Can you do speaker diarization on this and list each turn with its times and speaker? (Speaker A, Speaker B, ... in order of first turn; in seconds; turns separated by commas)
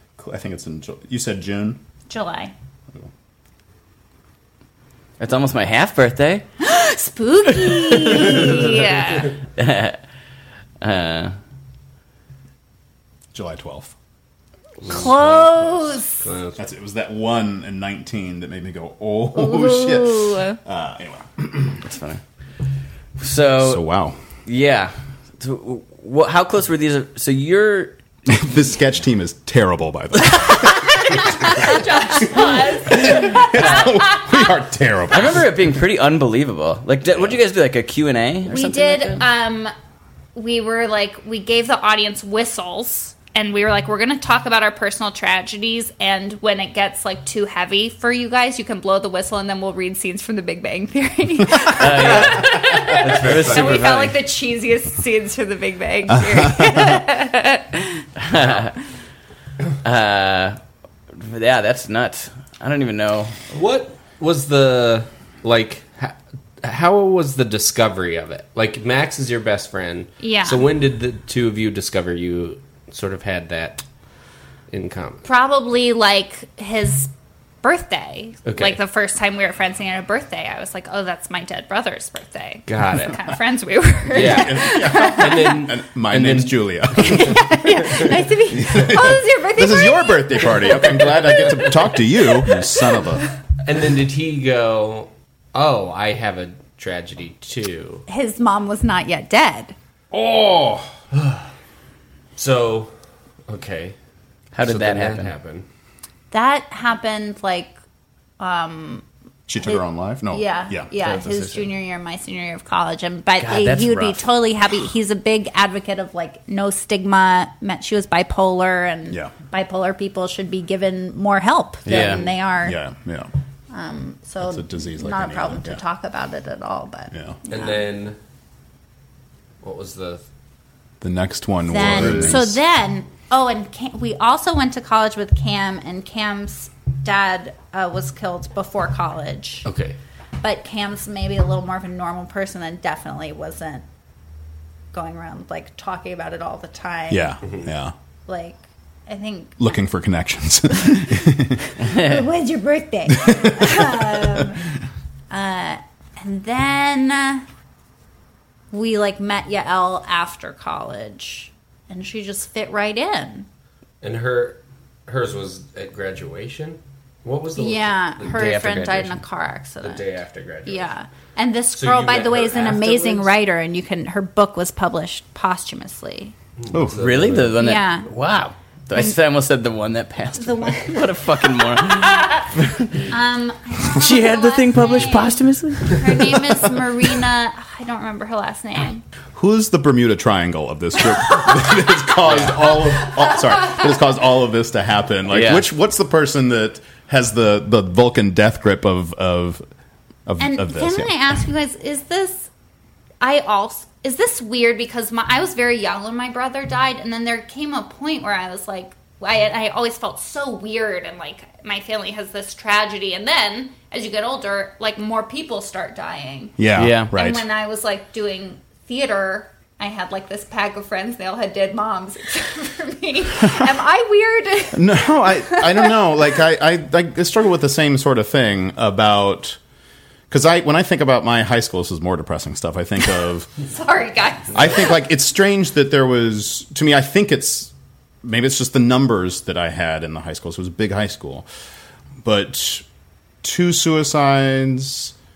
Speaker A: 0.2-1.8, Speaker B: 2.1-2.5, Speaker C: 5.2-6.5, Speaker B: 6.6-9.4, Speaker C: 8.1-8.4, Speaker C: 9.6-10.0, Speaker C: 10.8-11.3, Speaker A: 13.3-13.9, Speaker D: 14.8-15.4, Speaker B: 14.9-16.2, Speaker D: 16.2-16.6, Speaker A: 16.6-21.8, Speaker B: 19.3-20.6, Speaker C: 21.8-22.2, Speaker C: 23.2-23.8, Speaker A: 23.6-24.2, Speaker C: 24.5-28.0, Speaker A: 28.3-35.5, Speaker B: 30.9-34.5, Speaker C: 35.1-39.2, Speaker B: 38.5-39.7, Speaker B: 40.4-58.1, Speaker C: 51.7-54.2, Speaker D: 52.9-54.0, Speaker A: 56.2-56.9, Speaker C: 58.2-58.8, Speaker C: 59.8-60.6, Speaker C: 61.1-63.4, Speaker D: 63.5-73.8, Speaker B: 70.2-70.7, Speaker D: 74.7-75.2, Speaker B: 75.2-77.1, Speaker B: 77.6-85.7, Speaker D: 78.5-78.8, Speaker D: 82.7-83.2, Speaker D: 84.1-87.3, Speaker A: 84.1-87.5, Speaker B: 87.0-92.5, Speaker A: 88.5-93.3, Speaker D: 93.6-98.0, Speaker B: 98.1-99.7, Speaker A: 100.1-100.9, Speaker D: 101.1-101.4, Speaker D: 102.4-102.9, Speaker D: 103.5-104.0, Speaker C: 104.5-105.3, Speaker D: 104.6-105.7, Speaker B: 106.3-107.8, Speaker B: 108.4-109.0, Speaker A: 109.5-110.9, Speaker B: 109.6-122.8, Speaker D: 111.0-111.5, Speaker C: 113.4-114.2, Speaker C: 121.9-122.2, Speaker A: 121.9-123.3, Speaker B: 123.7-127.8, Speaker A: 124.4-125.8, Speaker D: 127.5-128.2, Speaker D: 129.6-130.2, Speaker A: 131.0-132.6, Speaker B: 131.7-139.7, Speaker D: 139.7-140.0, Speaker B: 140.4-143.8, Speaker B: 144.9-147.3, Speaker A: 147.1-147.9, Speaker B: 148.3-149.7, Speaker A: 149.6-151.7, Speaker B: 151.8-154.7, Speaker A: 153.1-154.5, Speaker B: 155.3-157.5, Speaker B: 158.7-163.5, Speaker D: 164.0-168.4, Speaker B: 167.6-170.1, Speaker C: 168.2-169.2, Speaker D: 169.8-170.9, Speaker B: 170.7-176.3, Speaker D: 171.7-173.3, Speaker D: 176.6-177.6, Speaker A: 176.7-177.0, Speaker C: 177.0-183.0, Speaker B: 177.6-178.1, Speaker B: 180.4-182.5, Speaker B: 183.1-189.0, Speaker C: 183.9-186.4, Speaker A: 189.3-199.6, Speaker D: 192.2-192.7, Speaker B: 192.7-193.8, Speaker C: 195.3-195.7, Speaker A: 200.3-201.1, Speaker B: 200.4-202.5, Speaker B: 203.2-226.0, Speaker A: 216.6-217.5, Speaker C: 216.8-217.1, Speaker A: 224.7-229.6, Speaker A: 230.3-233.5, Speaker B: 233.7-235.0, Speaker A: 234.5-237.7, Speaker A: 238.2-241.5, Speaker A: 242.2-242.8, Speaker A: 243.4-245.2